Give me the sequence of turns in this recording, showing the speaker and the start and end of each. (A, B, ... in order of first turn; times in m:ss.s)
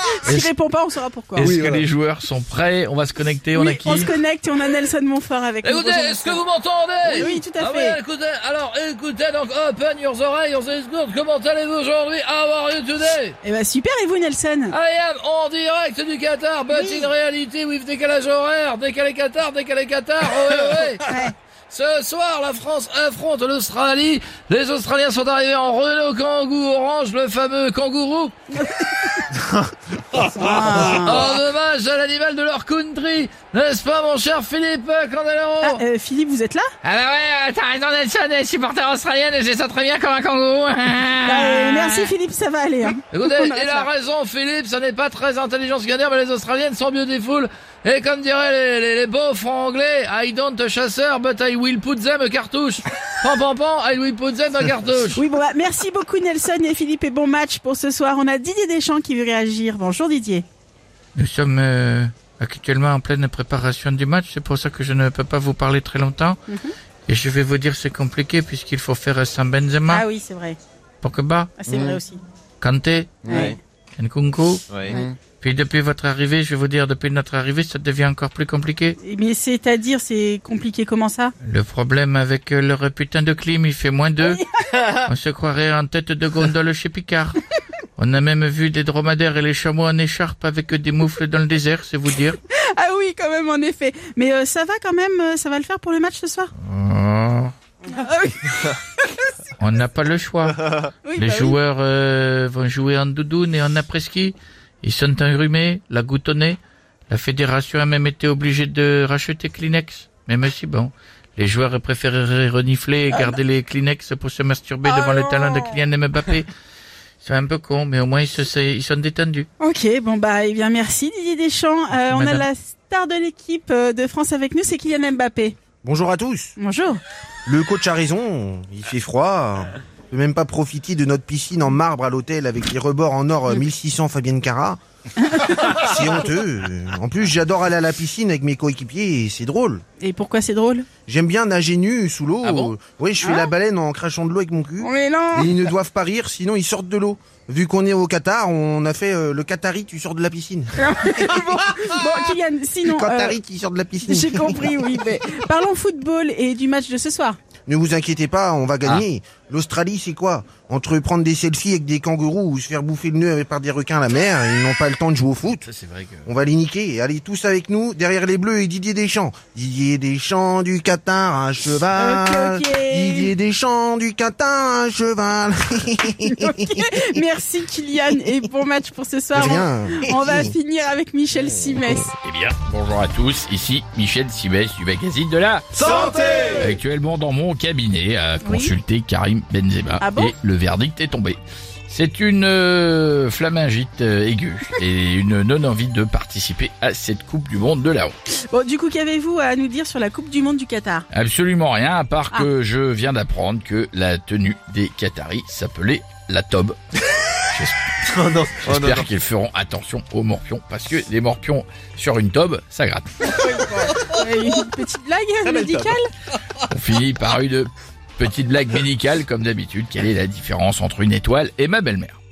0:00.2-0:01.5 A
0:01.4-0:04.1 B
0:01.4-0:01.9 C
0:03.5-0:06.4 A
0:05.6-0:13.4 B
0:07.0-0:08.0 A
0:13.4-0:14.8 A
0:14.7-0:21.2 B
0:16.7-0:17.1 A
0:21.1-0:21.3 A
0:21.7-0:28.3 B
0:28.5-0:29.4 A
0:30.2-0:31.4 A
0:30.5-0:35.8 B
0:35.6-0:36.7 A
0:36.8-0:42.1 B
0:41.2-0:43.9 A
0:43.1-0:55.2 B
0:55.2-1:00.4 A
1:01.2-1:06.4 D
1:07.1-1:10.0 D
1:09.9-1:10.6 A
1:11.0-1:11.5 D
1:11.6-1:12.2 A
1:11.7-1:12.0 C
1:12.6-1:13.4 D
1:13.2-1:13.6 C
1:13.2-1:13.6 A
1:14.0-1:14.6 D
1:14.7-1:15.1 C
1:14.9-1:15.1 A
1:15.4-1:19.0 D
1:19.0-1:21.3 A
1:21.4-1:24.4 D
1:24.2-1:24.9 A
1:25.0-1:27.4 D
1:28.0-1:32.4 D
1:32.5-1:36.5 A
1:36.6-1:37.5 B
1:37.9-1:39.2 A
1:39.6-1:46.6 D
1:39.8-1:40.2 B
1:41.0-1:41.6 A
1:47.1-1:56.5 D
1:49.9-1:50.4 B
1:53.1-1:53.4 A
1:54.8-1:55.9 A
1:57.2-1:59.5 D
1:59.6-2:05.6 A
2:01.9-2:02.5 D
2:05.8-2:06.6 E
2:06.6-2:07.0 A
2:07.5-2:14.8 E
2:15.2-2:15.9 A
2:15.4-2:19.8 E
2:20.0-2:20.9 A
2:21.1-2:30.7 E
2:22.4-2:22.8 B
2:23.2-2:23.5 A
2:24.8-2:25.6 A
2:30.8-2:33.4 A
2:32.8-2:34.8 E
2:34.0-2:37.4 A
2:37.7-2:45.6 E
2:45.6-2:46.3 B
2:46.3-2:56.7 E
2:52.0-2:53.3 A
2:56.2-3:02.1 A
2:59.3-3:00.5 E
3:02.2-3:18.2 B
3:05.8-3:06.8 C
3:08.4-3:08.7 A
3:10.0-3:10.4 A
3:18.5-3:21.1 A
3:21.1-3:26.8 B
3:27.4-3:28.0 B
3:28.1-3:29.1 C
3:28.6-3:33.1 B
3:33.3-3:36.1 A
3:35.6-3:35.9 C
3:36.6-3:42.2 B